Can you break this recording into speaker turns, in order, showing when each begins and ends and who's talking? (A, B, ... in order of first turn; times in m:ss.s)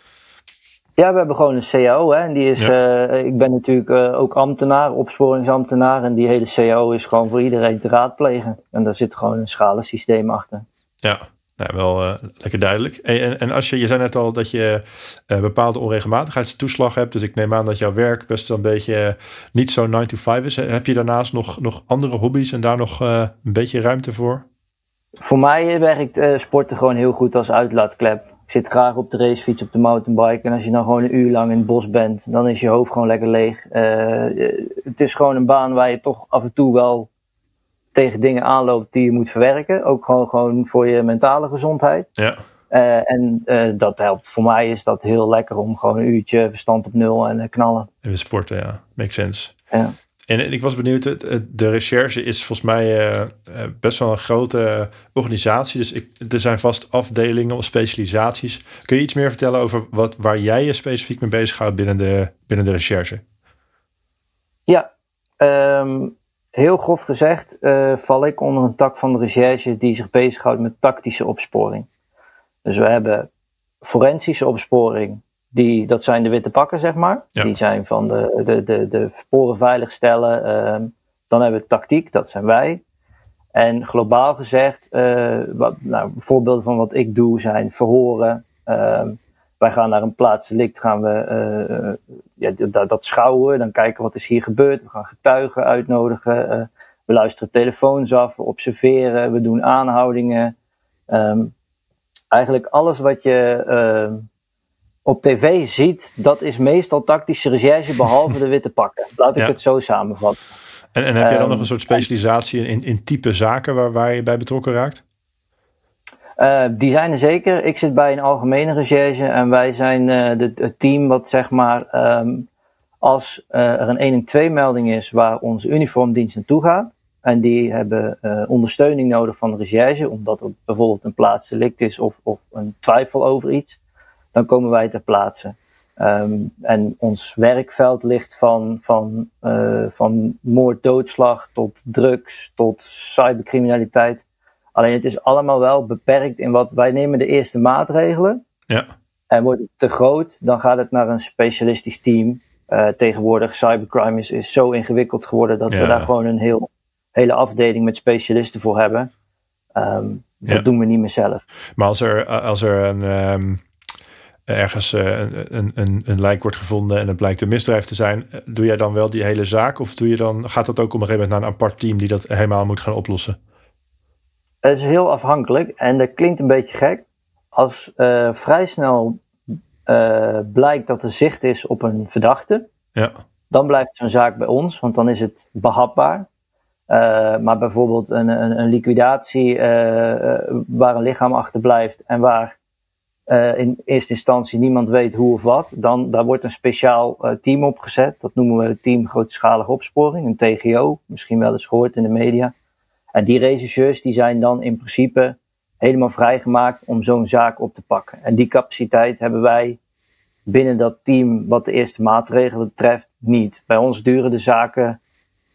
0:01.0-0:10.6 A
0:11.0-0:24.4 B
0:25.2-0:37.1 A
0:37.9-0:42.1 A
0:42.7-0:47.9 A
0:48.0-0:49.5 B
0:50.3-1:03.2 B
1:05.4-1:11.9 A
1:12.6-1:13.3 A
1:13.8-1:22.8 A
1:23.5-1:40.5 A
1:41.1-1:41.5 A
1:42.3-1:44.2 A
1:45.0-1:50.4 A
1:50.9-1:55.0 B
1:51.2-1:52.0 A
1:56.4-2:02.5 A
2:03.0-2:13.8 A
2:14.3-2:24.2 A
2:24.7-2:28.4 A
2:29.3-2:39.1 A
2:35.7-2:36.1 B
2:39.8-2:41.4 A
2:41.8-2:43.6 B
2:44.5-2:53.4 B
2:54.6-2:59.2 A
2:59.8-3:02.6 A
3:03.5-3:06.3 A
3:06.9-3:12.6 A
3:13.3-3:22.5 A
3:23.1-3:29.8 A
3:30.4-3:35.0 A